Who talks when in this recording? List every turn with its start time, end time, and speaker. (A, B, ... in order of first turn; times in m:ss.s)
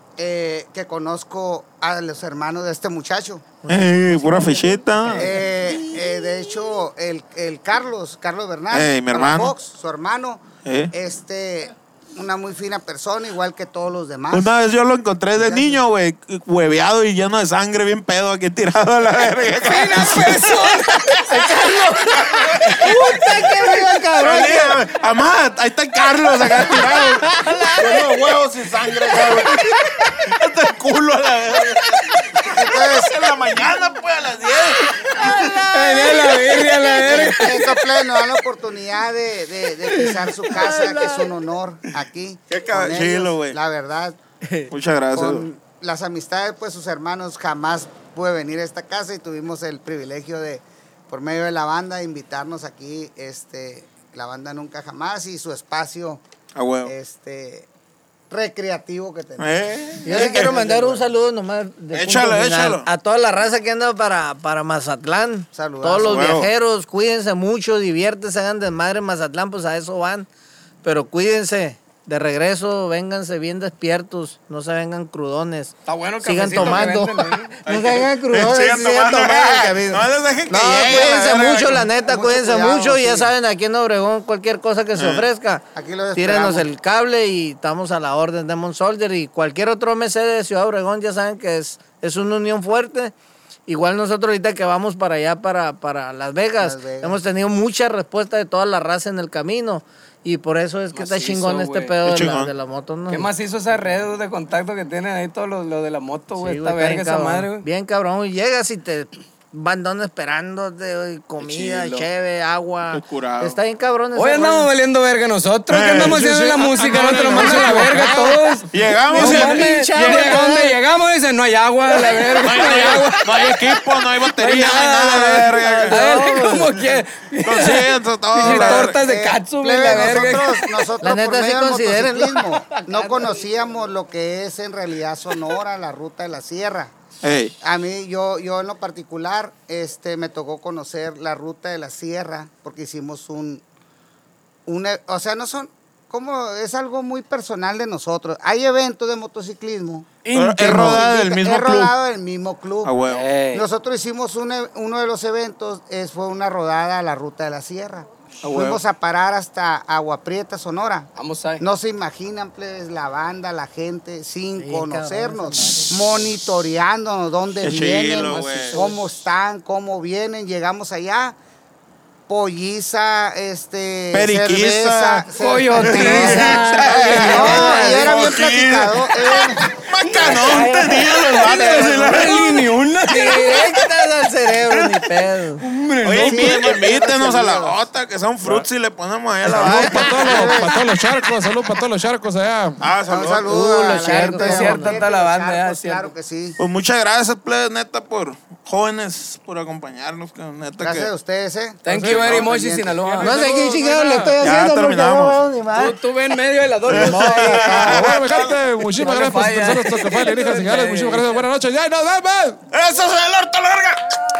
0:00.2-0:03.6 A
0:03.7-0:05.2 B
0:03.7-0:05.4 C
0:05.1-0:14.6 A
0:08.7-0:09.6 C
0:10.6-0:10.9 C
0:14.3-0:21.6 C
0:15.3-0:15.8 A
0:19.6-0:21.1 D
0:21.3-0:24.8 B
0:22.2-0:23.4 C
0:24.1-0:35.7 C
0:26.4-0:28.1 B
0:32.5-0:33.2 A
0:35.2-0:37.6 D
0:37.0-0:44.2 A
0:40.5-0:41.3 D
0:42.5-0:43.6 C
0:44.7-0:45.4 C
0:45.1-0:56.2 A
0:56.6-0:56.9 C
0:56.8-0:57.7 A
0:58.3-1:01.1 A
0:59.4-1:00.6 C
1:00.0-1:10.3 B
1:01.9-1:02.9 C
1:05.5-1:06.4 A
1:06.0-1:06.5 C
1:10.8-1:33.1 B
1:15.9-1:17.5 D
1:17.7-1:21.9 C
1:22.0-1:23.3 A
1:25.0-1:25.2 C
1:25.8-1:26.6 A
1:33.7-1:43.3 B
1:36.6-1:37.2 A
1:40.9-1:42.0 D
1:42.0-1:42.5 C
1:43.1-1:47.6 D
1:46.4-1:54.7 B
1:51.4-1:52.1 D
1:52.9-1:53.6 C
1:54.1-2:03.6 D
1:55.7-1:56.2 C
1:56.0-1:58.6 E
1:58.7-2:00.5 C
1:59.1-2:00.8 B
2:02.4-2:06.2 C
2:04.1-2:10.7 D
2:05.6-2:07.0 B
2:07.4-2:09.0 C
2:08.5-2:17.0 A
2:11.0-2:12.5 B
2:12.9-2:13.4 D
2:17.2-2:17.5 C
2:17.6-2:23.6 A
2:24.7-2:30.1 A
2:30.2-2:31.0 D
2:30.3-2:31.9 C
2:30.6-2:33.0 A
2:32.8-2:33.3 C
2:33.1-2:33.6 D
2:33.5-2:51.4 A
2:38.4-2:38.8 C
2:41.2-2:41.6 D
2:44.6-2:46.3 B
2:47.6-2:48.8 C
2:48.2-2:49.0 D
2:52.3-2:59.8 A
2:54.1-3:02.5 C
2:55.4-2:58.4 D
2:55.8-2:57.9 B
3:00.3-3:02.4 B
3:01.7-3:03.7 D
3:03.0-3:05.6 B
3:05.6-3:06.6 D
3:06.0-3:10.2 C
3:06.2-3:07.8 A
3:09.4-3:10.6 B
3:09.6-3:12.8 E
3:09.8-3:10.8 A
3:12.8-3:13.5 C
3:13.1-3:16.6 A
3:13.4-3:15.0 B
3:14.1-3:16.1 D
3:16.6-3:21.1 C
3:20.8-3:23.0 A
3:21.8-3:23.4 D
3:21.9-3:22.5 E
3:23.0-3:24.4 E
3:23.2-3:26.0 B
3:24.4-3:25.4 C
3:25.7-3:28.0 D
3:26.9-3:28.5 C
3:26.9-3:28.1 B
3:27.8-3:32.6 E
3:29.0-3:31.4 D
3:32.7-3:34.0 C